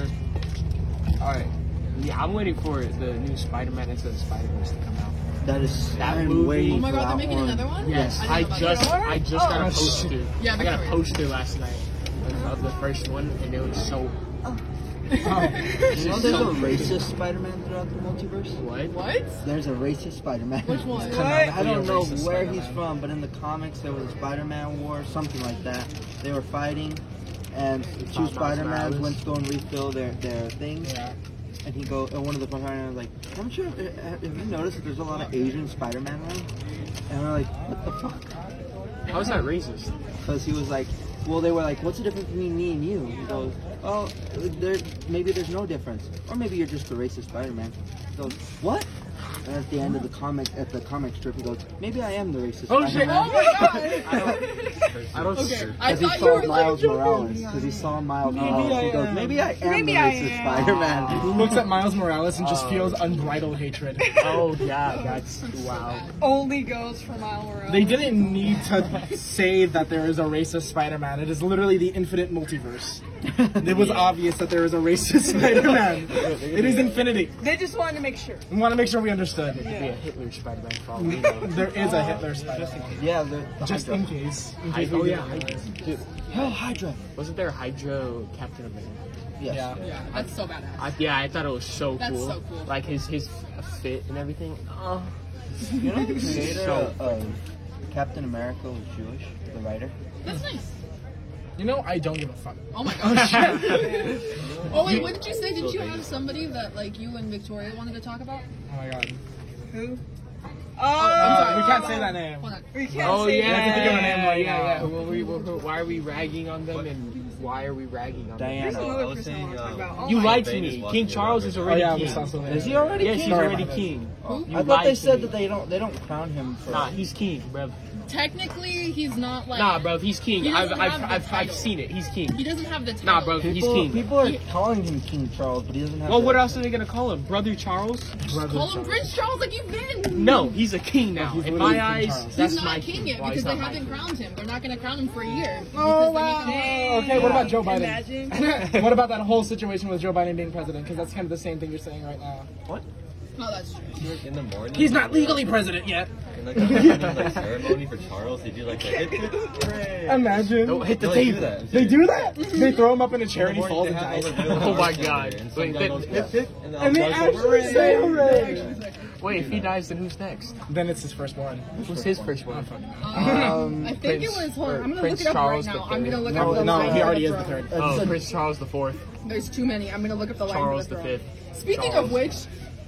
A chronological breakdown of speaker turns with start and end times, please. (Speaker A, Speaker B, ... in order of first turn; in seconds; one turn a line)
Speaker A: 1.2-5.2
Speaker B: 5.4-8.5
Speaker C: 6.0-6.3
Speaker A: 6.0-6.9
Speaker D: 6.6-9.4
Speaker A: 7.8-14.1
Speaker E: 9.2-9.9
Speaker F: 9.5-10.2
Speaker D: 10.4-11.2
Speaker D: 15.1-16.0
Speaker F: 15.2-15.7
Speaker A: 15.8-17.1
Speaker B: 15.8-18.6
Speaker A: 18.6-19.0
Speaker D: 18.9-19.4
Speaker C: 19.1-19.5
Speaker B: 19.4-31.0
Speaker D: 20.6-21.3
Speaker E: 21.0-21.6
Speaker A: 21.2-22.8
Speaker F: 21.2-21.7
Speaker F: 22.3-22.8
Speaker A: 28.0-29.2
Speaker F: 30.8-31.1
Speaker B: 31.6-36.5
Speaker B: 37.1-38.4
Speaker A: 39.1-39.9
Speaker B: 40.2-48.9
Speaker B: 49.4-54.3
Speaker F: 52.7-53.4
Speaker D: 52.9-54.7
Speaker E: 53.3-53.9
Speaker C: 53.8-56.3
Speaker A: 55.1-55.7
Speaker D: 55.3-58.8
Speaker B: 55.8-61.6
Speaker E: 58.4-60.8
Speaker F: 58.4-59.0
Speaker A: 60.5-61.7
Speaker F: 61.1-64.2
Speaker A: 62.3-63.4
Speaker A: 64.1-66.1
Speaker D: 64.7-66.6
Speaker E: 66.2-68.4
Speaker F: 67.7-73.0
Speaker F: 73.5-77.4
Speaker A: 73.6-74.2
Speaker A: 76.0-77.0
Speaker C: 76.4-77.2
Speaker E: 77.4-78.5
Speaker F: 78.5-79.9
Speaker A: 79.6-81.6
Speaker F: 81.4-83.0
Speaker D: 81.5-82.2
Speaker C: 82.1-83.0
Speaker B: 83.0-84.2
Speaker F: 83.6-85.6
Speaker A: 84.7-86.5
Speaker D: 85.7-86.0
Speaker B: 86.3-87.0
Speaker A: 87.2-89.0
Speaker B: 89.4-89.8
Speaker F: 89.5-89.8
Speaker D: 89.8-90.9
Speaker A: 90.1-95.1
Speaker D: 92.0-92.8
Speaker D: 95.7-96.4
Speaker B: 95.8-97.4
Speaker B: 97.9-99.9
Speaker D: 100.2-100.8
Speaker F: 101.6-104.1
Speaker D: 102.7-104.2
Speaker E: 103.7-104.0
Speaker C: 104.4-106.5
Speaker D: 104.7-108.5
Speaker F: 108.7-109.2
Speaker E: 109.7-110.0
Speaker E: 110.8-114.2
Speaker D: 110.9-113.0
Speaker F: 111.1-114.9
Speaker A: 113.0-118.8
Speaker B: 118.4-119.1
Speaker E: 118.6-120.5
Speaker C: 118.7-122.8
Speaker A: 120.0-122.3
Speaker F: 121.6-123.9
Speaker B: 122.5-126.9
Speaker A: 123.0-125.4
Speaker D: 124.2-124.6
Speaker A: 126.7-127.8
Speaker D: 128.1-131.8
Speaker A: 129.5-132.5
Speaker D: 132.3-134.4
Speaker A: 133.0-134.1
Speaker B: 133.4-136.7
Speaker A: 136.1-138.1
Speaker F: 138.2-139.1
Speaker D: 138.3-140.6
Speaker A: 140.1-144.1
Speaker F: 141.2-142.4
Speaker D: 142.3-147.3
Speaker F: 145.7-152.5
Speaker E: 146.4-148.4
Speaker D: 153.4-154.2
Speaker C: 153.9-155.8
Speaker F: 154.7-157.5
Speaker C: 156.3-162.3
Speaker A: 156.8-157.3
Speaker E: 159.1-159.9
Speaker F: 160.1-164.9
Speaker A: 160.6-161.7
Speaker D: 162.5-162.8
Speaker C: 163.3-168.7
Speaker A: 164.4-166.3
Speaker F: 166.8-168.7
Speaker D: 167.0-169.1
Speaker E: 167.4-168.0
Speaker A: 169.2-170.5
Speaker C: 169.2-169.8
Speaker F: 170.7-171.7
Speaker A: 171.8-176.9
Speaker B: 171.8-172.3
Speaker F: 172.5-173.6
Speaker D: 173.0-177.7
Speaker B: 173.1-174.0
Speaker B: 176.2-178.2
Speaker F: 176.3-178.1
Speaker A: 177.8-179.0
Speaker D: 179.3-182.5
Speaker A: 180.4-182.4